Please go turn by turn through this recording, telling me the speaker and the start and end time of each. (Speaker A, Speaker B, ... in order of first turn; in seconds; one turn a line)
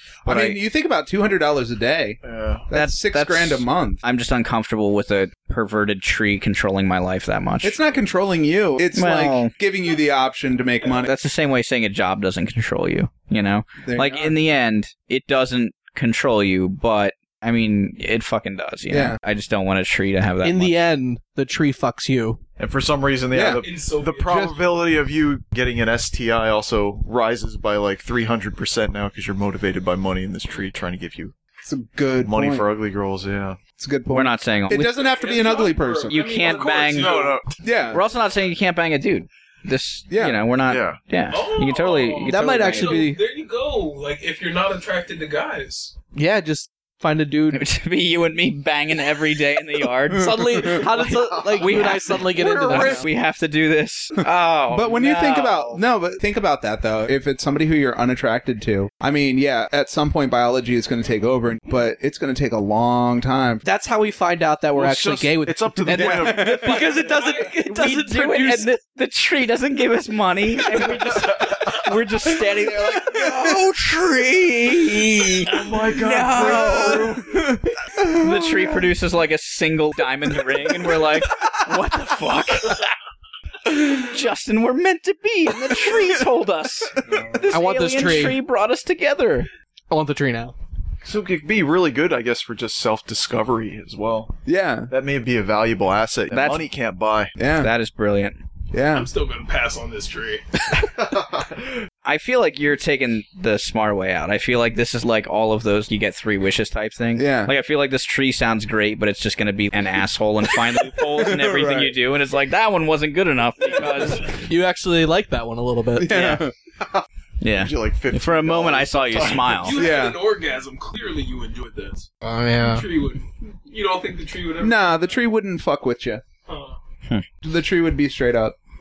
Speaker A: 0.3-0.6
Speaker B: 0.3-4.0
Speaker C: 2.2-2.6
Speaker A: 2.7-7.8
Speaker B: 7.6-11.1
Speaker A: 8.9-9.5
Speaker A: 11.0-20.8
Speaker B: 13.8-14.4
Speaker B: 18.9-19.2
Speaker D: 20.4-22.4
Speaker C: 22.6-31.3
Speaker B: 23.3-23.6
Speaker E: 23.5-24.5
Speaker B: 24.3-24.6
Speaker B: 31.6-32.7
Speaker C: 32.2-33.6
Speaker B: 33.8-36.2
Speaker A: 34.1-35.0
Speaker E: 35.0-37.4
Speaker A: 36.1-37.2
Speaker C: 36.8-37.5
Speaker B: 37.6-38.0
Speaker A: 37.9-43.1
Speaker B: 40.1-40.4
Speaker C: 40.7-41.0
Speaker E: 41.3-46.0
Speaker D: 42.2-43.2
Speaker D: 46.1-47.6
Speaker A: 47.5-55.8
Speaker B: 50.1-51.1
Speaker D: 50.1-53.1
Speaker B: 54.2-63.6
Speaker D: 63.6-68.7
Speaker C: 64.7-66.7
Speaker B: 65.9-66.8
Speaker E: 66.9-67.6
Speaker A: 67.7-77.4
Speaker B: 72.8-73.6
Speaker C: 75.5-77.3
Speaker B: 76.3-78.9
Speaker A: 78.0-82.8
Speaker A: 83.7-89.5
Speaker C: 87.1-87.4
Speaker D: 87.5-88.4
Speaker D: 89.9-90.5
Speaker C: 91.0-94.4
Speaker B: 94.5-94.9
Speaker C: 94.9-97.3
Speaker A: 96.3-96.7
Speaker B: 97.4-97.7
Speaker A: 97.6-98.4
Speaker B: 98.7-99.1
Speaker E: 98.9-100.4
Speaker A: 102.0-114.5
Speaker B: 107.2-107.5
Speaker B: 111.2-111.9
Speaker D: 114.5-116.3
Speaker B: 116.0-117.0
Speaker A: 116.1-116.4
Speaker A: 117.4-119.8
Speaker C: 117.5-119.7
Speaker E: 119.6-122.1
Speaker B: 119.7-120.2
Speaker D: 122.2-122.9
Speaker E: 122.6-124.8
Speaker B: 124.6-126.2
Speaker E: 126.5-126.8
Speaker B: 127.4-128.6